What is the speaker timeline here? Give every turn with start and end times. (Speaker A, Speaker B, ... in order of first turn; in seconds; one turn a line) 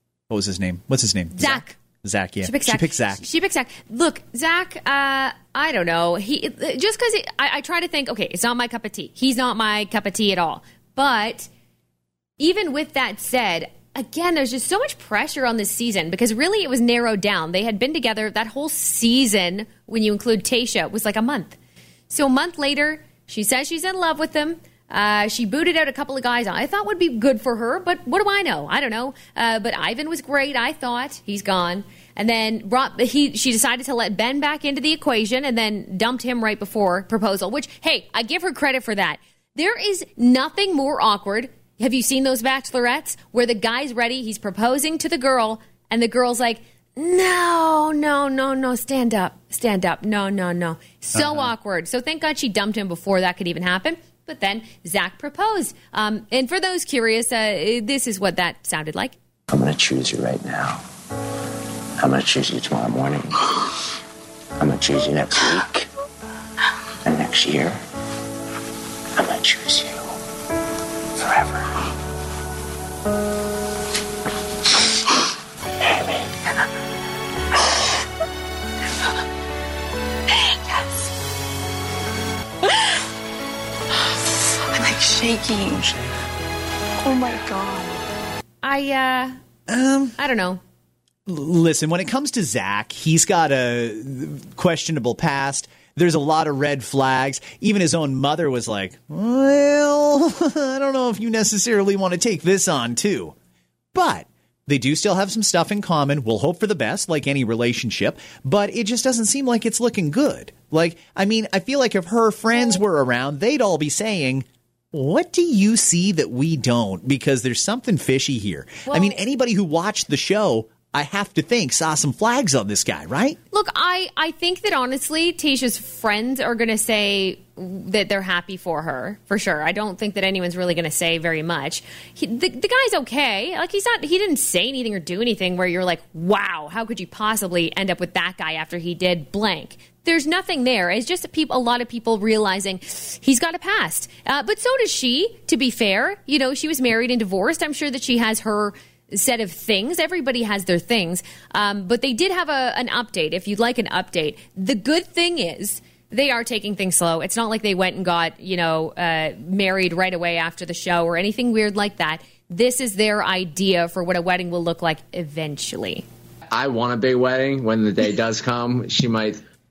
Speaker A: 0.3-3.2
Speaker B: 1.4-1.8
Speaker B: 2.4-11.5
Speaker B: 12.4-21.6
Speaker B: 22.1-59.1
Speaker C: 59.5-60.8
Speaker C: 62.0-63.4
Speaker C: 64.6-65.9
Speaker C: 67.0-67.8
Speaker C: 69.2-70.1
Speaker C: 71.2-71.8
Speaker C: 75.9-76.2
Speaker D: 84.7-85.9
Speaker D: 87.0-88.0
Speaker B: 88.6-89.4
Speaker A: 89.7-90.1
Speaker B: 90.2-90.6
Speaker A: 91.3-103.3
Speaker A: 103.9-123.4
Speaker B: 112.5-112.8
Speaker B: 118.9-119.2
Speaker B: 123.5-166.1
Speaker E: 166.5-169.4